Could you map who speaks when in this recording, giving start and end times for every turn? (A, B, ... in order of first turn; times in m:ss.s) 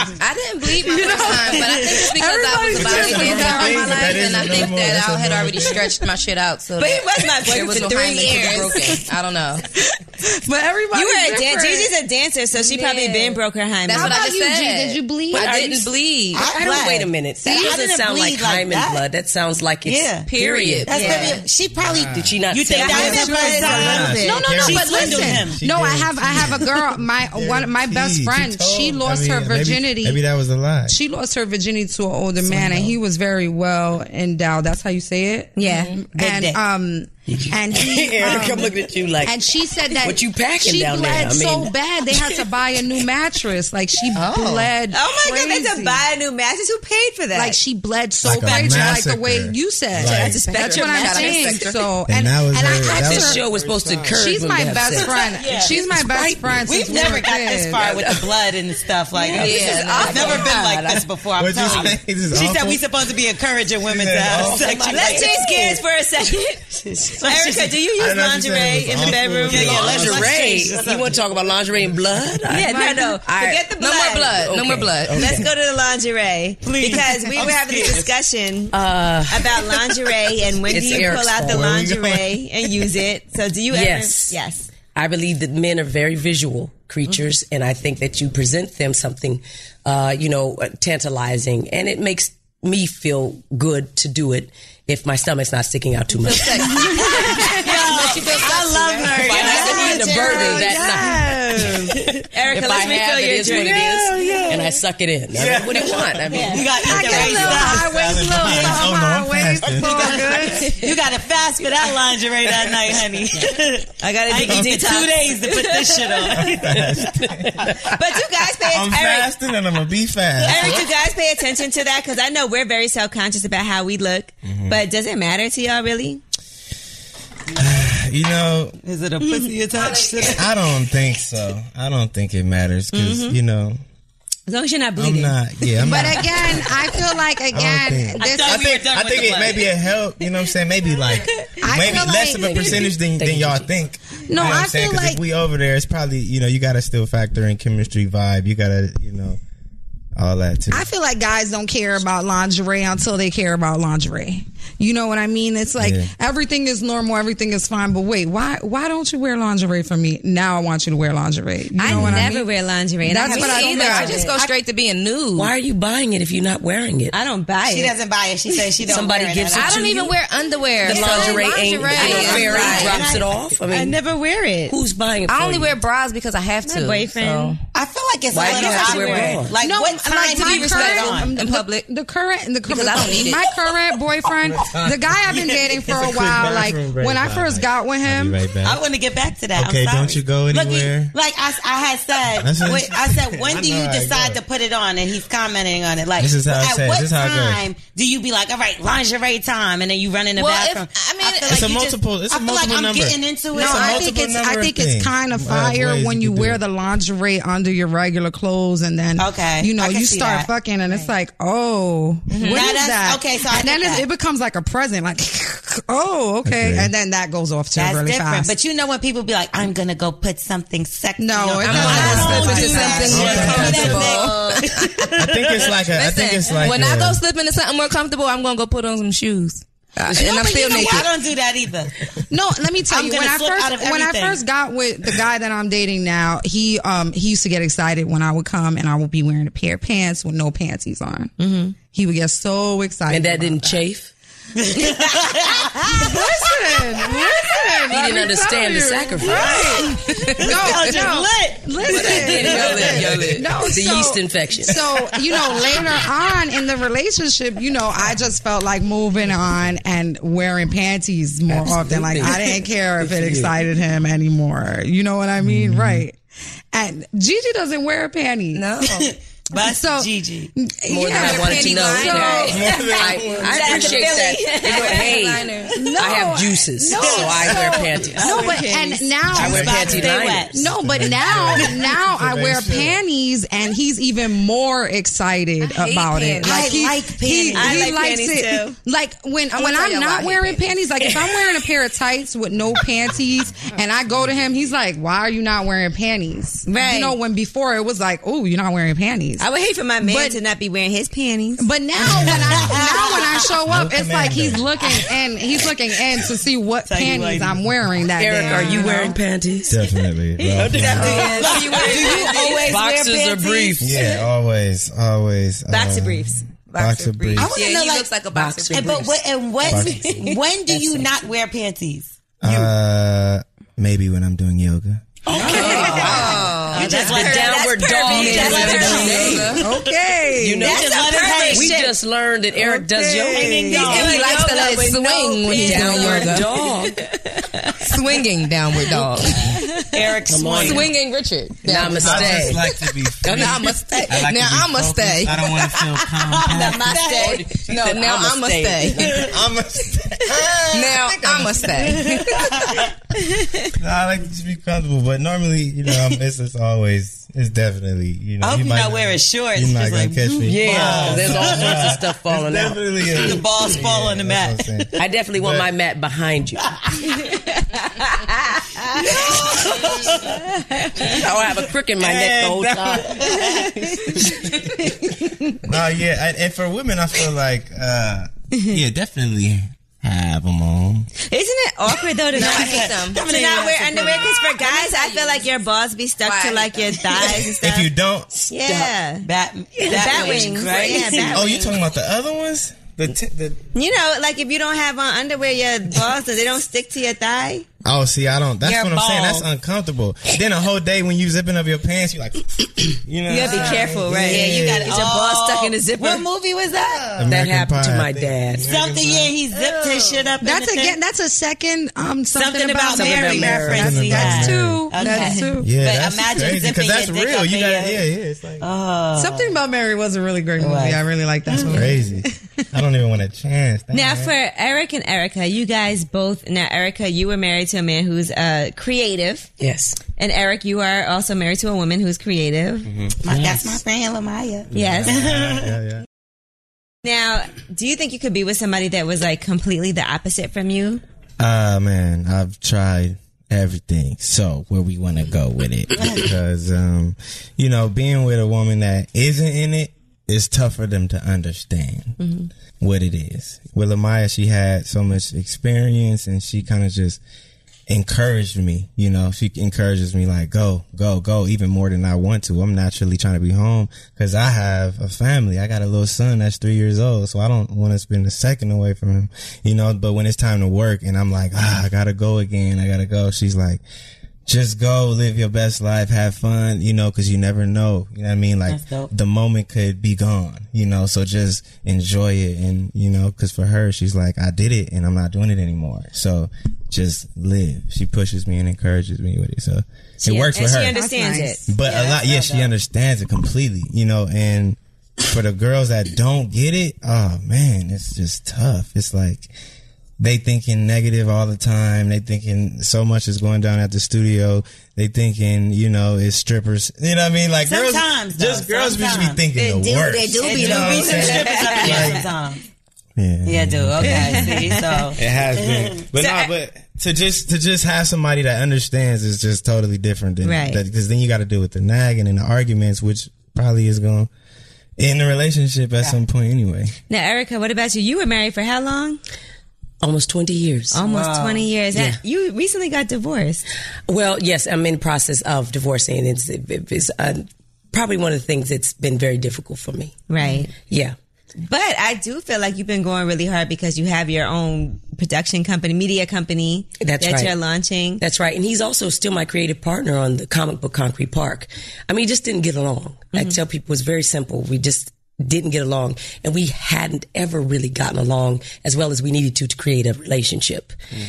0:00.2-0:09.6 A
0:00.8-0:04.6 B
0:02.7-0:05.9 C
0:06.8-0:08.9 D
0:09.7-0:11.9 B
0:10.9-0:14.2 D
0:12.6-0:16.5 A
0:13.9-0:15.7 B
0:15.3-0:21.4 E
0:16.3-0:19.0 F
0:16.6-0:17.0 D
0:19.8-0:20.3 F
0:20.2-0:21.4 A
0:20.9-0:25.6 F
0:20.9-0:21.4 D
0:21.8-0:22.4 C
0:22.1-0:23.4 E
0:22.8-0:24.4 D
0:23.0-0:30.2 B
0:23.6-0:26.7 C
0:27.3-0:30.9 C
0:30.9-0:46.0 B
0:32.6-0:32.9 E
0:35.6-0:36.0 D
0:36.1-0:36.6 F
0:37.3-0:43.0 E
0:44.2-0:44.7 A
0:44.9-0:47.6 D
0:47.3-0:53.4 B
0:48.2-0:50.5 C
0:50.0-0:51.9 A
0:50.6-0:51.4 D
0:52.1-0:54.2 C
0:52.8-0:57.2 E
0:54.1-0:57.8 B
0:55.0-0:55.8 F
0:56.7-1:05.8 F
0:57.8-0:58.6 E
0:59.2-1:00.7 E
0:59.3-1:01.0 A
1:00.0-1:00.2 D
1:01.4-1:02.9 C
1:03.8-1:04.8 C
1:04.3-1:05.4 E
1:04.9-1:06.6 D
1:06.9-1:07.8 F
1:07.2-1:09.8 D
1:08.0-1:10.6 C
1:09.5-1:11.2 F
1:09.5-1:13.7 E
1:12.5-1:14.4 D
1:12.6-1:13.1 B
1:13.8-1:15.4 A
1:14.3-1:15.5 E
1:15.2-1:18.8 D
1:16.6-1:18.1 F
1:18.7-1:19.9 E
1:19.3-1:24.7 D
1:20.7-1:21.8 E
1:21.0-1:22.3 C
1:23.7-1:24.4 E
1:24.9-1:37.3 E
1:36.2-1:40.1 A
1:36.7-1:40.4 F
1:37.0-1:41.5 D
1:39.2-1:46.7 E
1:39.4-1:41.8 B
1:42.2-1:43.9 D
1:43.5-1:44.6 C
1:45.3-1:50.6 C
1:46.3-1:46.6 D
1:46.4-1:48.9 F
1:46.8-1:50.7 B
1:49.9-1:56.7 F
1:54.0-1:56.3 D
1:56.3-1:57.8 C
1:56.6-1:57.9 E
1:57.8-1:59.3 D
1:58.7-2:00.9 C
2:00.4-2:06.2 D
2:04.4-2:04.8 C
2:07.5-2:08.8 C
2:08.8-2:10.4 F
2:09.7-2:10.3 A
2:10.3-2:13.8 C
2:12.9-2:13.4 D
2:14.5-2:15.9 D
2:15.0-2:16.6 C
2:15.8-2:18.6 B
2:17.5-2:29.4 C
2:18.2-2:19.7 F
2:21.6-2:22.9 B
2:23.2-2:23.7 E
2:24.3-2:25.2 B
2:30.2-2:30.9 C
2:30.7-2:42.5 B
2:35.8-2:36.1 C
2:41.8-2:44.5 D
2:41.9-2:42.3 C
2:43.0-2:44.2 B
2:43.3-2:45.5 A
2:43.8-2:44.4 E
2:45.4-2:47.1 E
2:47.1-2:47.9 D
2:47.7-2:49.9 F
2:48.9-2:50.1 E
2:49.5-2:53.1 A
2:50.8-2:54.0 E
2:50.9-2:54.7 D
2:52.0-2:53.0 F
2:54.7-2:55.8 E
2:55.3-2:57.6 A
2:56.6-2:57.6 D
2:57.7-3:01.3 F
2:58.3-2:59.5 E
2:58.4-2:59.4 D
2:59.5-3:08.4 B
3:00.3-3:01.9 A
3:02.6-3:03.5 A
3:04.5-3:08.8 C
3:08.6-3:24.1 F
3:09.6-3:11.1 C
3:12.4-3:14.4 C
3:16.2-3:17.6 C
3:20.4-3:21.7 A
3:21.5-3:23.2 C
3:23.5-3:38.5 B
3:23.7-3:26.6 C
3:29.2-3:30.5 F
3:30.9-3:31.1 D
3:32.3-3:32.7 A
3:32.4-3:34.1 F
3:36.4-3:36.9 C
3:37.7-3:45.7 F
3:41.2-3:44.2 B
3:41.6-3:45.1 A
3:41.7-3:44.2 C
3:45.2-3:47.2 C
3:45.9-3:51.1 A
3:50.2-3:51.9 F
3:52.3-4:03.8 B
3:52.9-3:54.4 F
4:01.4-4:01.7 D
4:03.1-4:04.1 E
4:04.6-4:06.3 F
4:05.8-4:26.2 B
4:07.9-4:09.8 E
4:09.2-4:13.1 F
4:10.1-4:11.2 A
4:11.8-4:13.6 A
4:11.8-4:15.9 E
4:21.5-4:23.5 E
4:25.4-4:26.0 C
4:26.7-4:28.7 B
4:28.5-4:29.1 A
4:28.8-4:30.5 F
4:29.6-4:32.7 B
4:30.9-4:38.6 E
4:31.1-4:32.7 A
4:32.5-4:33.8 C
4:33.4-4:35.8 A
4:33.4-4:35.2 D
4:35.7-4:39.7 B
4:36.9-4:38.6 F
4:38.2-4:39.1 A
4:39.3-4:40.6 E
4:39.3-4:43.0 C
4:39.4-4:40.7 F
4:40.5-4:59.4 B
4:45.6-4:46.8 A
4:46.4-4:47.9 F
4:47.5-4:48.8 D
4:49.5-4:50.8 A
4:51.0-4:51.5 E
4:56.7-4:57.2 D
4:59.4-5:01.7 D
5:00.0-5:00.4 B
5:01.6-5:09.2 B
5:02.0-5:02.7 C
5:02.7-5:03.4 F
5:03.7-5:04.6 C
5:06.8-5:07.6 F
5:08.2-5:09.8 E
5:08.6-5:08.9 F
5:09.7-5:11.4 C
5:10.6-5:13.9 E
5:10.7-5:13.8 F
5:10.8-5:12.6 A
5:11.1-5:12.9 D
5:13.4-5:13.6 D
5:13.8-5:17.5 C
5:15.7-5:16.4 D
5:16.7-5:19.1 A
5:17.4-5:18.1 F
5:18.3-5:21.1 E
5:18.7-5:22.7 F
5:19.6-5:20.1 C
5:22.4-5:25.0 C
5:25.2-5:29.6 E
5:25.3-5:29.9 F
5:25.4-5:26.4 B
5:25.4-5:29.6 A
5:27.2-5:29.1 D
5:29.6-5:30.8 B
5:30.4-5:37.0 E
5:30.6-5:31.9 F
5:30.9-5:31.8 A
5:32.5-5:34.1 B
5:33.3-5:34.8 F
5:33.7-5:36.6 A
5:33.9-5:37.9 D
5:37.8-5:39.6 A
5:39.4-5:39.9 D
5:39.9-5:40.9 F
5:40.2-5:40.9 E
5:40.5-5:42.6 A
5:41.6-5:42.7 E
5:41.7-5:47.0 C
5:43.2-5:44.0 E
5:43.2-5:46.1 A
5:46.4-5:47.4 D
5:46.4-5:47.4 F
5:47.0-5:49.3 E
5:47.4-5:49.2 A
5:49.2-5:51.7 C
5:50.7-5:52.7 A
5:51.8-5:52.9 F
5:53.2-5:53.7 D
5:53.7-6:05.7 C
5:58.4-6:02.0 F
6:00.4-6:02.8 E
6:03.1-6:04.6 F
6:05.0-6:06.9 E
6:08.6-6:09.0 D
6:09.0-6:10.3 F
6:10.7-6:11.1 D
6:11.0-6:13.3 E
6:12.0-6:14.9 C
6:13.3-6:13.7 F
6:15.0-6:15.3 D
6:15.6-6:21.1 C
6:21.3-6:27.9 D
6:22.3-6:23.2 A
6:22.3-6:24.8 F
6:24.7-6:25.3 A
6:26.2-6:27.0 A
6:27.6-6:28.3 C
6:28.3-6:28.9 E
6:28.5-6:29.2 D
6:29.2-6:31.4 F
6:29.8-6:30.6 E
6:29.9-6:31.8 D
6:30.0-6:30.9 A
6:31.3-6:33.6 C
6:33.7-6:37.6 D
6:37.8-6:45.1 C
6:38.6-6:39.4 F
6:43.3-6:46.2 D
6:44.3-6:47.3 F
6:47.2-6:49.4 C
6:47.3-6:48.7 E
6:48.6-6:51.0 F
6:49.5-6:50.1 D
6:50.4-6:55.7 B
6:52.3-6:58.0 F
6:52.9-6:54.1 E
6:53.7-6:54.9 C
6:55.0-6:55.5 D
6:55.6-6:58.7 C
6:58.6-6:59.6 F
6:59.2-7:02.1 B
7:00.6-7:01.9 F
7:01.7-7:04.4 C
7:03.9-7:09.5 D
7:09.6-7:10.0 E
7:10.2-7:12.9 D
7:12.9-7:13.8 C
7:13.2-7:15.7 F
7:14.7-7:16.0 C
7:14.7-7:15.2 D
7:17.0-7:21.0 D
7:21.4-7:32.2 C
7:32.2-7:32.5 D
7:32.8-7:37.2 C
7:37.9-7:53.8 C
7:54.4-8:11.0 C
7:58.7-7:59.1 F
8:10.2-8:11.7 D
8:10.8-8:11.7 B
8:11.7-8:19.5 C
8:11.8-8:12.7 F
8:20.2-8:32.3 C
8:27.6-8:29.4 F
8:29.5-8:32.2 D
8:30.5-8:32.6 F
8:33.2-8:44.3 C
8:33.4-8:36.0 F
8:34.0-8:35.0 D
8:36.2-8:36.5 D
8:40.4-8:40.8 D
8:45.0-8:46.9 C
8:47.1-8:49.2 D
8:50.0-8:51.0 E
8:50.9-8:53.6 D
8:51.0-8:51.7 F
8:51.9-8:52.2 E
8:54.1-9:00.2 E
9:00.3-9:00.7 D
9:00.9-9:01.1 E
9:01.6-9:08.2 D
9:07.0-9:07.5 E
9:08.2-9:20.9 E